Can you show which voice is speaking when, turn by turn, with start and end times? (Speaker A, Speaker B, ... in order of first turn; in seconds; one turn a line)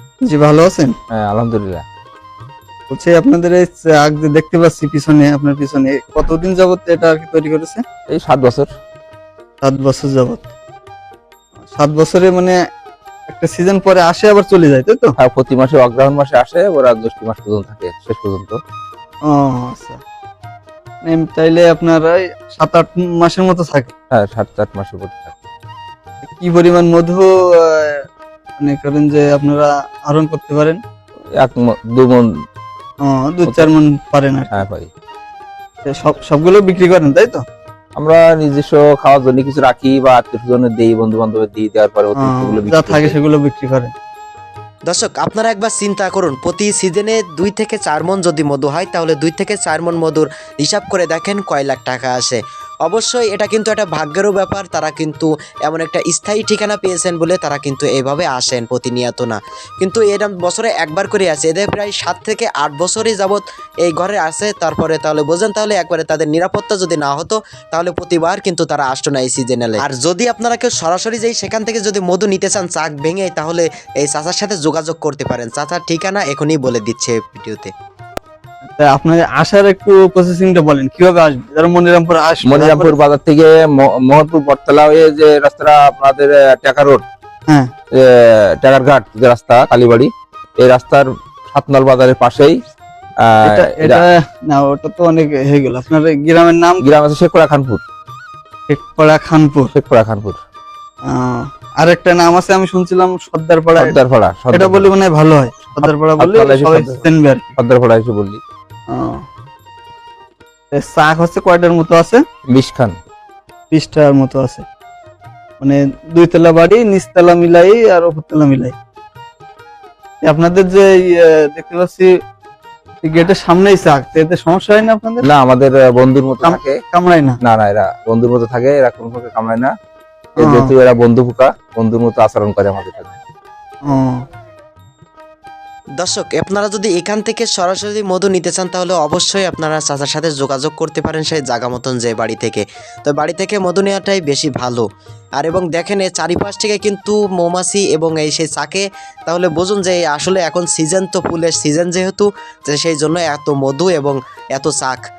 Speaker A: 0.2-0.9
Speaker B: 1.1-1.8
Speaker A: 2.9-7.8
Speaker B: 8.1-8.7
Speaker A: 9.6-10.5
Speaker A: 11.7-12.6
Speaker A: 13.3-15.1
Speaker B: 15.2-18.6
Speaker A: 19.3-20.0
Speaker A: 21.0-23.9
Speaker B: 24.1-25.3
Speaker A: 26.4-28.1
Speaker A: 28.6-30.8
Speaker B: 31.4-32.3
Speaker A: 33.0-34.5
Speaker B: 33.5-33.7
Speaker B: 34.5-34.9
Speaker A: 35.8-37.4
Speaker B: 38.0-43.1
Speaker A: 42.2-43.9
Speaker C: 44.9-77.7
Speaker A: 78.7-83.0
Speaker B: 82.4-87.0
Speaker B: 87.9-92.6
Speaker B: 93.2-94.0
Speaker A: 93.4-96.8
Speaker B: 96.8-97.8
Speaker A: 98.7-99.7
Speaker B: 99.7-100.4
Speaker A: 101.0-103.9
Speaker B: 103.8-104.9
Speaker A: 104.5-107.5
Speaker B: 105.7-107.0
Speaker B: 107.6-108.4
Speaker A: 108.9-109.2
Speaker A: 110.7-112.2
Speaker B: 112.5-113.0
Speaker A: 113.7-114.7
Speaker A: 115.6-118.7
Speaker A: 120.2-122.1
Speaker A: 123.0-125.2
Speaker B: 125.2-126.8
Speaker A: 126.4-127.4
Speaker B: 127.4-129.7
Speaker A: 130.4-130.7
Speaker B: 130.4-133.1
Speaker A: 133.9-134.2
Speaker C: 136.0-144.8
Speaker C: 145.4-155.0